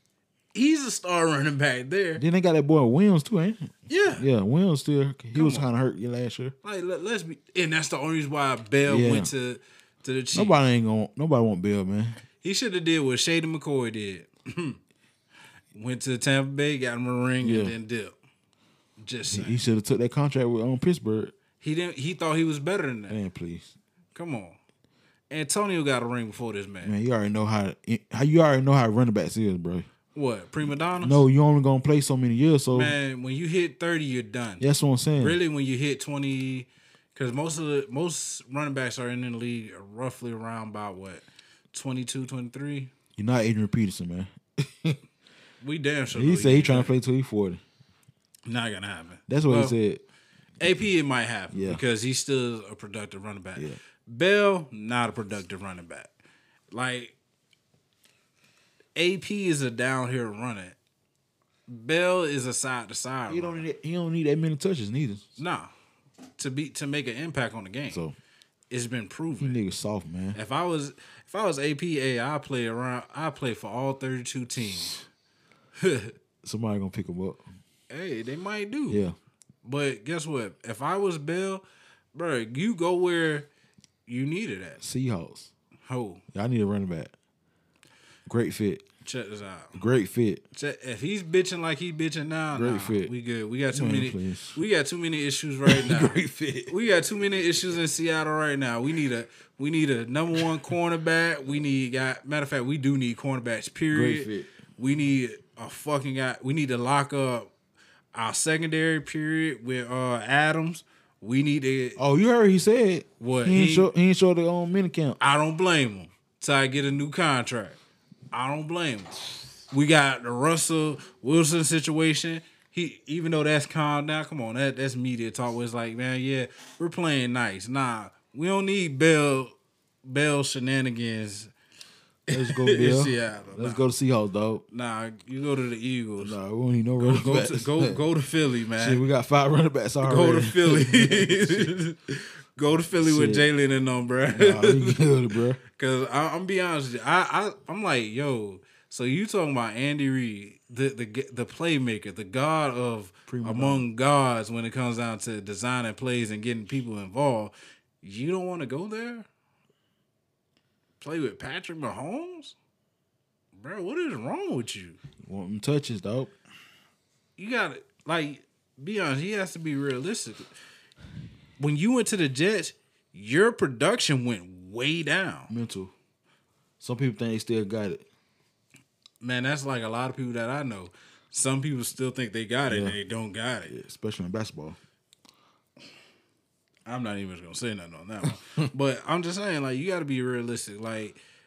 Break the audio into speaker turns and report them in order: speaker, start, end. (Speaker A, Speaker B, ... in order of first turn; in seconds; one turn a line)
Speaker A: 0.5-2.2
Speaker B: 2.2-6.5
Speaker A: 3.9-4.3
Speaker A: 5.3-5.7
Speaker A: 6.6-10.5
Speaker B: 8.9-9.3
Speaker B: 10.3-12.2
Speaker A: 12.4-14.8
Speaker A: 15.7-18.2
Speaker B: 17.4-17.7
Speaker A: 19.0-19.6
Speaker B: 19.3-21.3
Speaker A: 21.6-23.2
Speaker B: 23.1-23.7
Speaker A: 24.1-24.6
Speaker A: 25.3-26.9
Speaker B: 26.8-29.9
Speaker A: 30.1-31.2
Speaker B: 31.0-33.0
Speaker A: 32.7-34.6
Speaker B: 34.6-35.4
Speaker A: 35.2-42.9
Speaker B: 43.2-45.0
Speaker A: 45.6-47.0
Speaker B: 46.1-47.6
Speaker A: 48.5-49.8
Speaker B: 49.3-50.0
Speaker A: 50.6-56.1
Speaker B: 51.5-51.8
Speaker A: 56.7-57.1
Speaker A: 59.0-60.8
Speaker A: 61.7-63.6
Speaker B: 63.3-65.3
Speaker A: 65.4-65.7
Speaker A: 66.4-68.0
Speaker B: 67.9-68.2
Speaker A: 68.7-69.6
Speaker B: 69.4-70.4
Speaker A: 70.3-75.0
Speaker B: 74.7-75.0
Speaker A: 75.8-76.1
Speaker B: 76.4-77.4
Speaker A: 77.9-79.0
Speaker B: 78.9-79.2
Speaker A: 79.6-83.5
Speaker A: 84.1-84.8
Speaker B: 84.8-85.5
Speaker A: 85.9-86.2
Speaker B: 86.3-87.1
Speaker B: 88.3-88.8
Speaker A: 89.0-89.8
Speaker B: 89.8-90.4
Speaker A: 90.5-107.5
Speaker B: 92.5-93.1
Speaker B: 93.7-94.6
Speaker B: 95.7-96.7
Speaker B: 103.9-104.5
Speaker A: 108.1-112.0
Speaker B: 112.0-115.2
Speaker A: 113.2-113.9
Speaker A: 115.2-117.8
Speaker A: 118.3-131.5
Speaker A: 132.3-133.8
Speaker B: 132.3-134.6
Speaker A: 134.7-136.4
Speaker B: 136.2-138.0
Speaker A: 137.0-139.0
Speaker B: 138.8-141.7
Speaker A: 140.0-145.0
Speaker B: 143.0-143.5
Speaker B: 144.3-145.6
Speaker A: 145.7-159.3
Speaker B: 153.3-153.9
Speaker A: 161.0-162.6
Speaker A: 163.6-165.0
Speaker B: 165.2-166.3
Speaker A: 167.4-170.5
Speaker A: 171.6-175.5
Speaker B: 175.5-175.9
Speaker B: 176.8-178.1
Speaker A: 179.2-183.8
Speaker B: 182.7-183.0
Speaker B: 183.7-184.8
Speaker A: 186.9-191.2